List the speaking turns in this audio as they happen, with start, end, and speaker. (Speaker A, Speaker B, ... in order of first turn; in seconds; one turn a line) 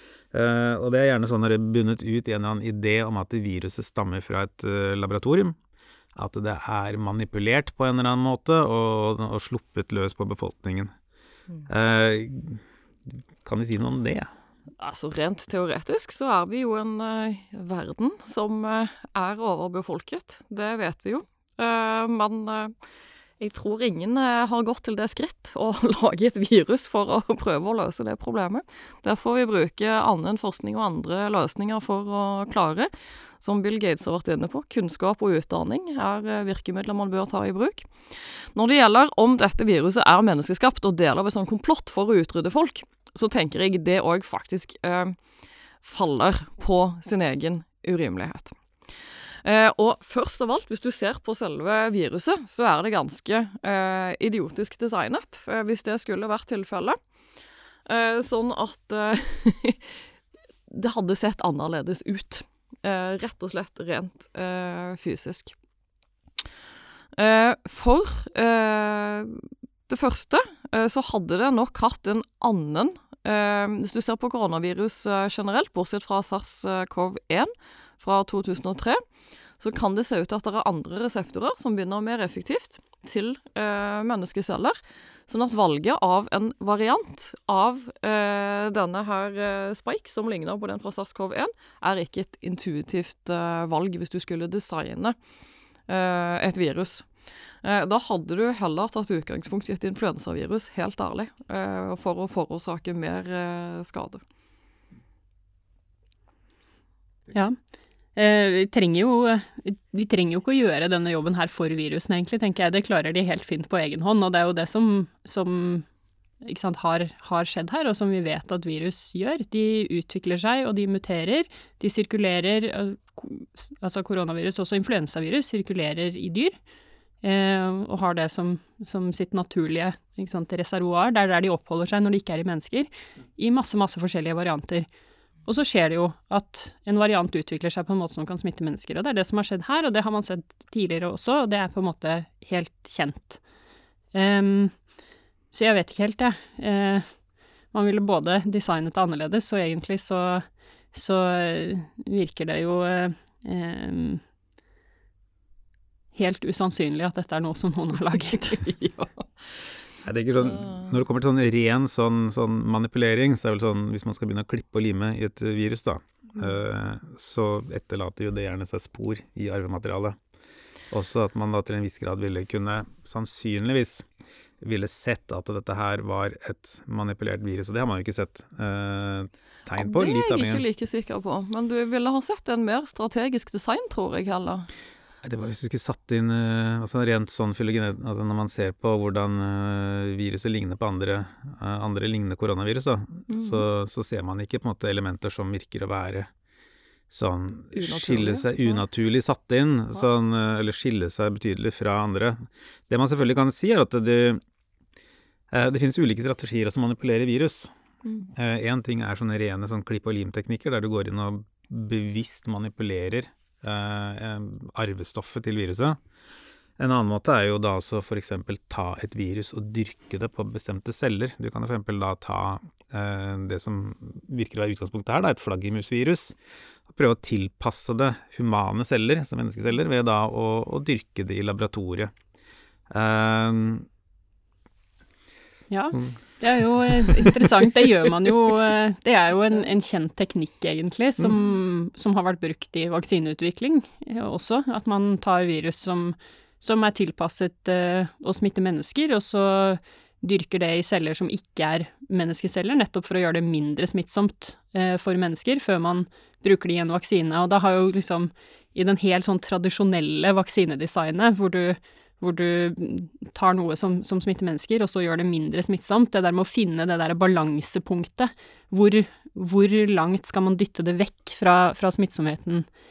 Speaker A: 0.3-5.6
Speaker A: 6.2-10.9
Speaker A: 11.7-14.3
Speaker B: 14.8-22.8
Speaker B: 23.4-45.2
Speaker B: 45.8-48.5
Speaker B: 49.4-57.0
Speaker B: 57.9-60.0
Speaker B: 60.7-65.5
Speaker B: 67.2-79.0
Speaker B: 79.6-95.2
Speaker B: 95.9-97.1
Speaker B: 97.6-104.2
Speaker C: 108.2-115.9
Speaker C: 116.4-126.6
Speaker C: 127.2-134.9
Speaker C: 135.5-143.4
Speaker C: 144.1-144.8
Speaker C: 145.5-147.1
Speaker C: 147.7-154.2
Speaker C: 156.1-158.7
Speaker B: 158.6-159.3
Speaker A: 160.0-170.2
Speaker B: 160.4-160.9
Speaker A: 170.9-174.1
Speaker A: 174.6-180.7
Speaker B: 179.8-184.7
Speaker A: 185.2-196.3
Speaker B: 193.3-193.6
Speaker A: 197.1-204.4
Speaker B: 197.7-198.8
Speaker A: 205.5-207.7
Speaker A: 208.3-216.0
Speaker A: 216.8-226.4
Speaker A: 226.9-232.1
Speaker A: 232.9-233.9
Speaker C: 235.7-272.7